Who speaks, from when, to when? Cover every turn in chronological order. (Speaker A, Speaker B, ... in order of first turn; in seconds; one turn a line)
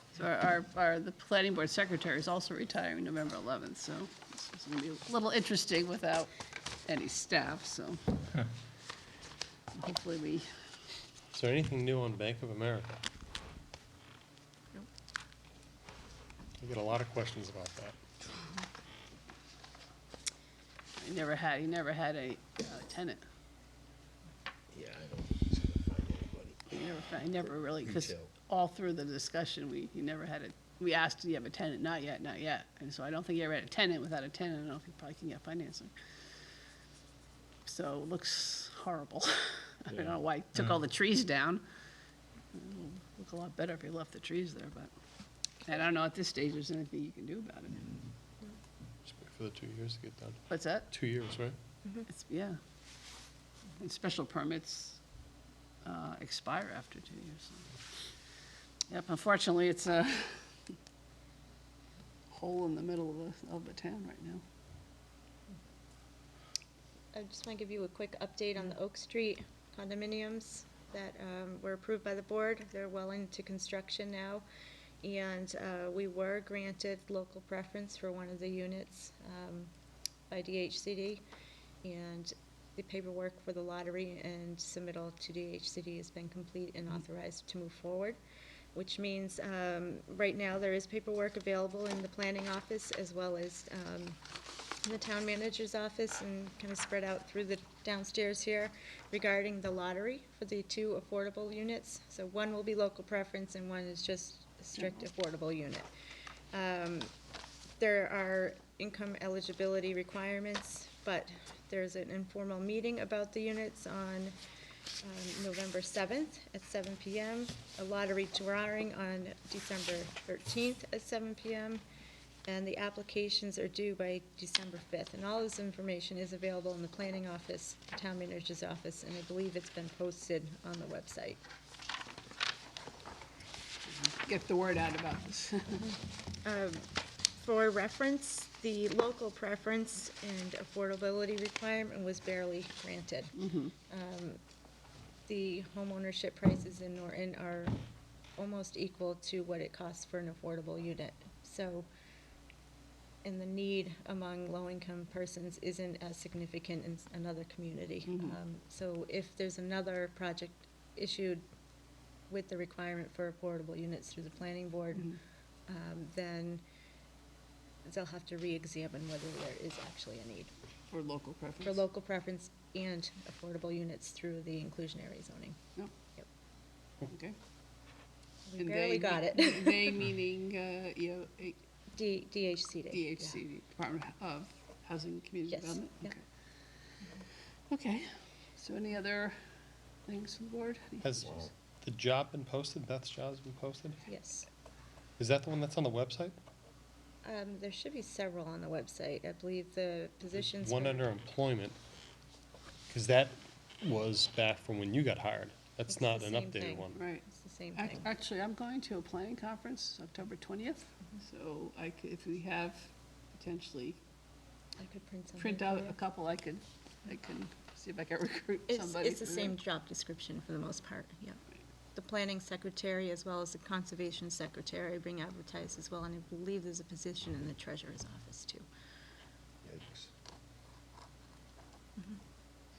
Speaker A: 0.2-6.3
Speaker A: 6.9-8.2
Speaker A: 9.8-10.7
Speaker B: 11.3-13.0
Speaker B: 16.6-18.0
Speaker A: 21.0-23.2
Speaker C: 24.7-26.7
Speaker A: 26.7-35.9
Speaker C: 27.9-28.3
Speaker A: 37.7-41.6
Speaker A: 42.5-44.9
Speaker A: 45.6-48.0
Speaker B: 49.1-51.6
Speaker A: 50.5-50.9
Speaker A: 52.1-52.6
Speaker A: 53.8-55.0
Speaker A: 55.8-57.7
Speaker A: 58.9-60.7
Speaker A: 62.3-64.4
Speaker D: 67.1-74.5
Speaker D: 75.0-79.7
Speaker D: 80.3-81.2
Speaker D: 81.8-88.2
Speaker D: 88.7-94.2
Speaker D: 94.8-105.9
Speaker A: 104.8-105.1
Speaker D: 106.5-107.1
Speaker D: 107.8-114.4
Speaker D: 115.0-121.8
Speaker D: 122.5-131.4
Speaker A: 133.9-135.9
Speaker D: 136.4-143.3
Speaker A: 143.4-143.7
Speaker D: 143.9-144.4
Speaker D: 145.3-147.8
Speaker D: 148.4-151.9
Speaker D: 153.2-161.4
Speaker A: 158.1-158.4
Speaker D: 162.3-165.1
Speaker D: 165.7-166.6
Speaker D: 167.8-170.5
Speaker A: 170.9-171.8
Speaker D: 171.7-175.6
Speaker A: 177.1-177.4
Speaker D: 178.5-180.0
Speaker A: 178.6-181.6
Speaker D: 181.9-183.4
Speaker A: 182.9-186.2
Speaker D: 185.5-186.1
Speaker A: 187.7-189.3
Speaker A: 190.1-191.3
Speaker B: 191.0-194.1
Speaker D: 194.1-194.5
Speaker B: 195.2-196.4
Speaker D: 197.2-201.1
Speaker B: 200.4-201.8
Speaker B: 202.9-207.0
Speaker D: 205.9-208.1
Speaker A: 206.9-207.2
Speaker A: 207.8-214.0
Speaker D: 214.8-216.0
Speaker A: 215.4-219.6
Speaker D: 218.7-221.4
Speaker D: 221.9-228.7
Speaker C: 229.6-230.1